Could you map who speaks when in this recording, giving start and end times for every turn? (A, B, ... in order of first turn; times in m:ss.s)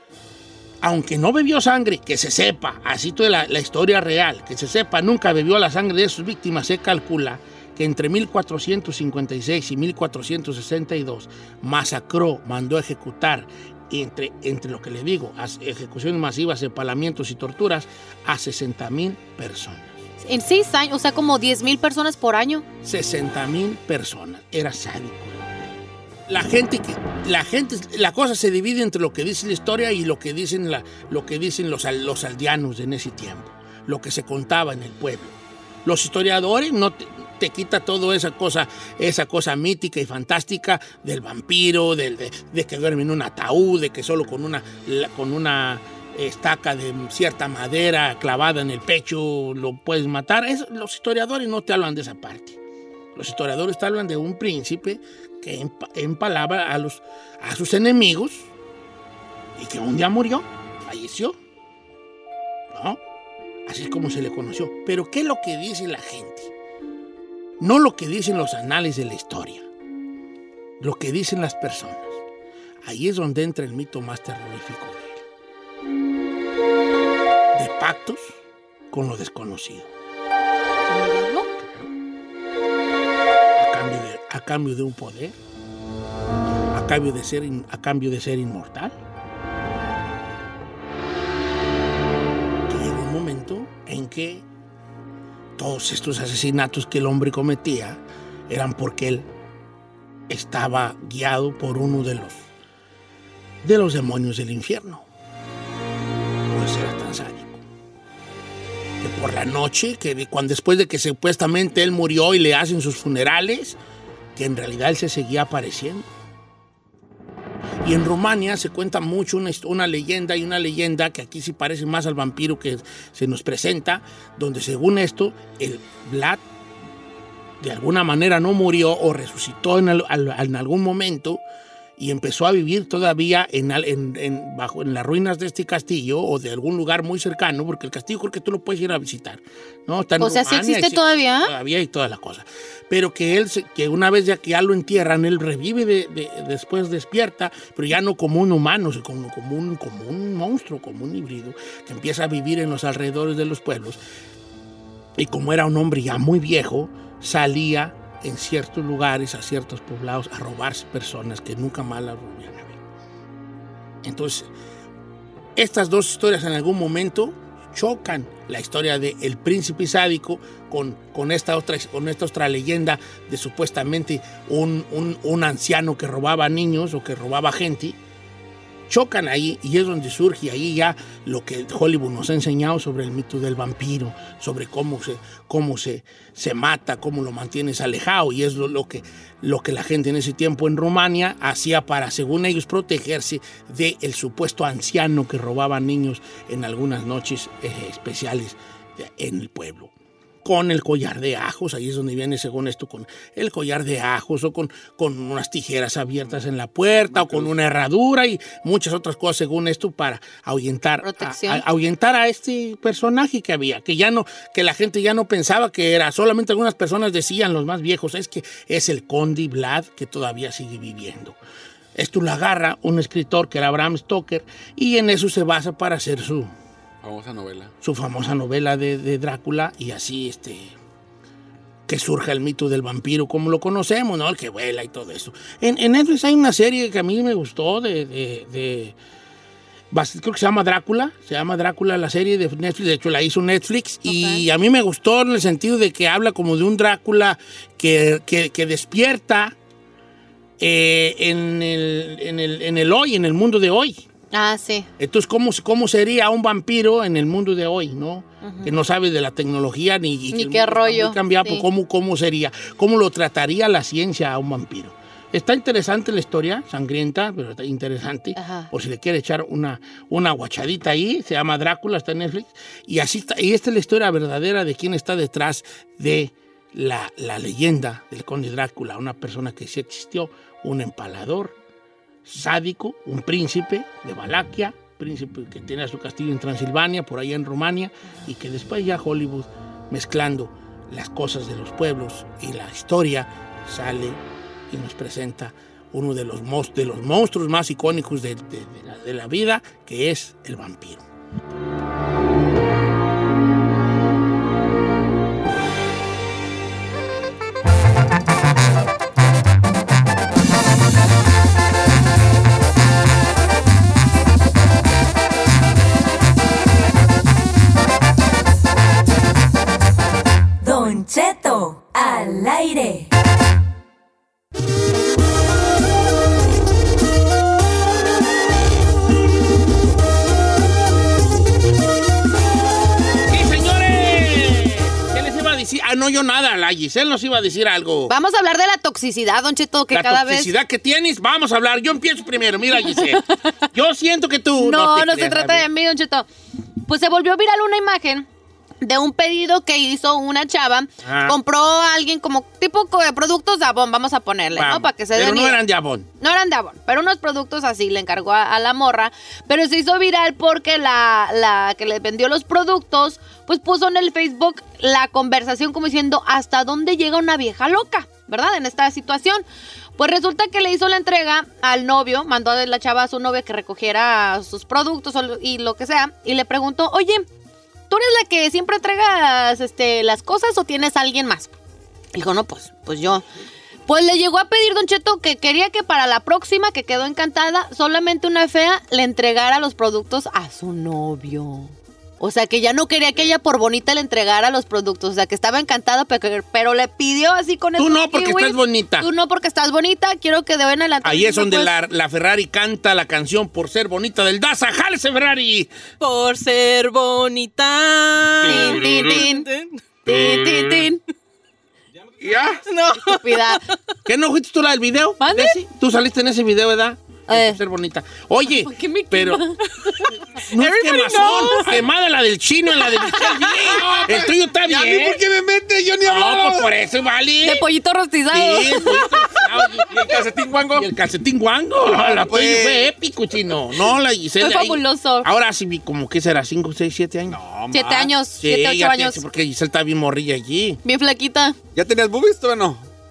0:00.8-0:20.0 A
0:20.2-0:22.6 B
0:22.8-0:25.5 A
0:26.3-0:52.6 A
0:53.1-0:58.5 A
0:59.6-1:01.4 A
1:02.7-1:03.0 A
1:03.6-1:06.5 A
1:07.6-1:09.7 A
1:10.8-1:12.2 A
1:12.8-1:15.2 A
1:17.5-1:18.4 A
1:18.9-1:19.9 A
1:20.9-1:21.5 B
1:21.6-1:21.9 A
1:23.6-1:25.4 A
1:26.7-1:29.0 A
1:32.7-1:34.5 A
1:35.6-1:39.3 A
1:40.3-1:42.5 A
1:43.6-1:45.1 A
1:46.5-1:47.6 A
1:49.0-1:53.8 A
1:54.4-1:56.1 A
1:57.8-2:06.4 A
2:07.6-2:11.4 A
2:12.0-2:34.0 A
2:20.2-2:21.5 B
2:35.2-2:42.8 A
2:44.0-2:44.5 A
2:45.6-2:58.0 A
2:58.9-3:19.9 A
3:20.4-3:41.4 A
3:27.2-3:27.4 C
3:31.0-3:31.6 B
3:42.0-3:46.5 A
3:47.0-3:47.7 C
3:47.8-3:50.8 A
3:51.9-3:59.0 A
3:59.9-4:09.6 A
4:04.1-4:04.4 B
4:10.6-4:14.0 A
4:14.3-4:14.9 B
4:15.0-4:41.6 A
4:18.4-4:18.7 B
4:20.3-4:21.6 B
4:28.4-4:28.7 B
4:42.2-5:01.0 A
5:20.6-5:23.1 D
5:33.3-5:38.1 A
5:38.1-5:40.5 B
5:39.9-5:45.6 A
5:44.6-5:46.3 B
5:46.9-5:48.3 B
5:48.8-5:55.6 B
5:51.0-5:51.4 A
5:54.5-5:56.1 A
5:56.2-6:09.4 B
6:10.0-6:17.3 B
6:17.9-6:21.5 B
6:22.1-6:23.2 B
6:23.9-6:41.7 B
6:37.8-6:39.1 A
6:41.0-6:45.7 A
6:46.0-6:50.4 E
6:48.4-6:49.5 B
6:48.5-6:49.2 C
6:50.1-6:51.0 B
6:50.1-6:50.8 C
6:52.2-6:52.6 C
6:52.6-6:53.6 E
6:53.0-6:53.6 B
6:54.1-6:59.5 A
6:55.2-6:55.6 B
6:57.3-6:57.6 B
6:58.5-6:59.6 B
6:59.8-7:01.7 E
7:00.4-7:05.2 A
7:03.6-7:06.7 C
7:06.0-7:07.7 A
7:07.4-7:09.1 B
7:08.3-7:09.9 A
7:09.9-7:10.9 C
7:10.8-7:17.4 A
7:11.8-7:12.9 C
7:14.4-7:15.3 B
7:17.3-7:18.1 C
7:17.7-7:19.2 B
7:18.4-7:20.8 A
7:20.8-7:21.6 B
7:21.8-7:22.9 C